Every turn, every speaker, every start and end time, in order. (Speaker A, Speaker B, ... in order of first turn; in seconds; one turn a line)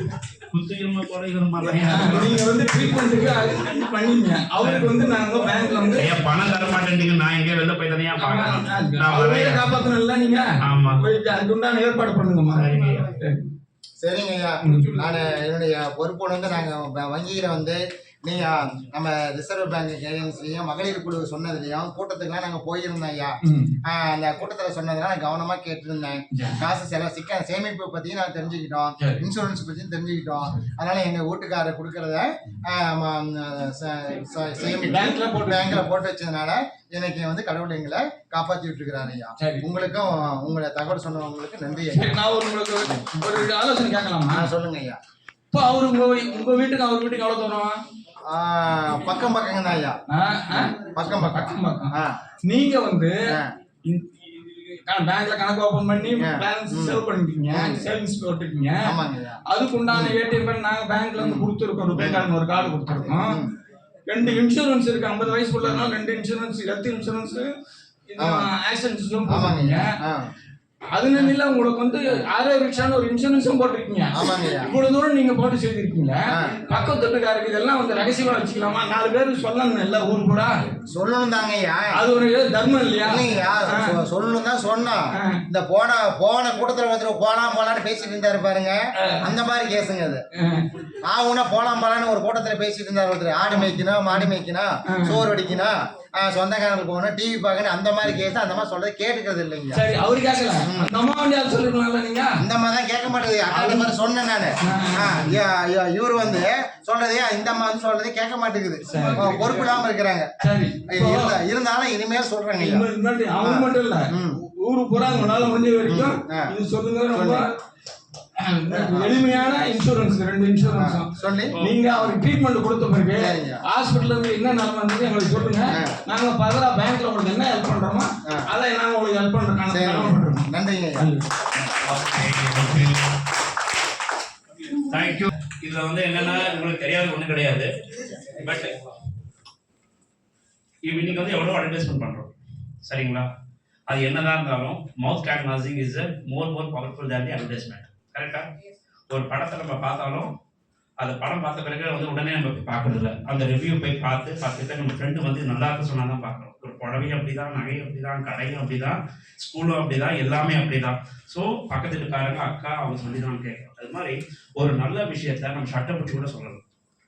Speaker A: 0.5-2.6
Speaker B: 1.8-6.1
Speaker A: 4.6-5.0
Speaker A: 5.9-9.8
Speaker B: 8.2-13.4
Speaker A: 10.6-11.0
Speaker A: 12.5-13.1
Speaker C: 14.0-42.1
Speaker B: 14.6-14.9
Speaker B: 23.4-23.7
Speaker B: 26.3-26.6
Speaker B: 29.0-29.2
Speaker B: 34.8-35.8
Speaker B: 39.4-39.6
Speaker B: 41.9-44.5
Speaker C: 43.1-43.4
Speaker C: 44.3-45.0
Speaker B: 45.5-47.7
Speaker C: 48.3-50.0
Speaker B: 50.1-51.9
Speaker C: 50.7-52.2
Speaker B: 52.5-53.2
Speaker B: 53.8-59.0
Speaker C: 56.2-57.8
Speaker C: 58.8-59.4
Speaker B: 59.5-63.4
Speaker C: 59.9-60.1
Speaker C: 61.2-62.3
Speaker C: 63.2-63.5
Speaker B: 64.1-67.5
Speaker B: 68.1-69.9
Speaker C: 68.2-68.5
Speaker C: 69.3-70.3
Speaker B: 70.9-80.7
Speaker C: 74.2-74.7
Speaker C: 80.9-82.0
Speaker B: 81.9-83.9
Speaker C: 83.0-90.2
Speaker B: 85.1-85.4
Speaker B: 90.4-90.7
Speaker C: 91.0-99.8
Speaker B: 94.9-95.2
Speaker B: 99.7-102.3
Speaker C: 100.6-100.9
Speaker C: 102.4-110.3
Speaker B: 103.5-103.9
Speaker B: 104.6-105.3
Speaker B: 108.9-109.8
Speaker B: 110.4-111.3
Speaker C: 110.9-114.4
Speaker B: 112.6-117.5
Speaker C: 115.9-116.5
Speaker C: 117.1-117.5
Speaker B: 118.4-130.5
Speaker C: 118.7-119.2
Speaker C: 120.7-121.5
Speaker C: 123.2-123.6
Speaker C: 125.7-126.0
Speaker C: 129.7-131.1
Speaker B: 131.0-131.3
Speaker A: 131.8-133.1
Speaker A: 134.9-137.7
Speaker A: 138.3-138.7
Speaker A: 140.8-142.3
Speaker A: 142.8-143.3
Speaker A: 143.9-148.5
Speaker A: 149.1-150.3
Speaker A: 151.0-166.6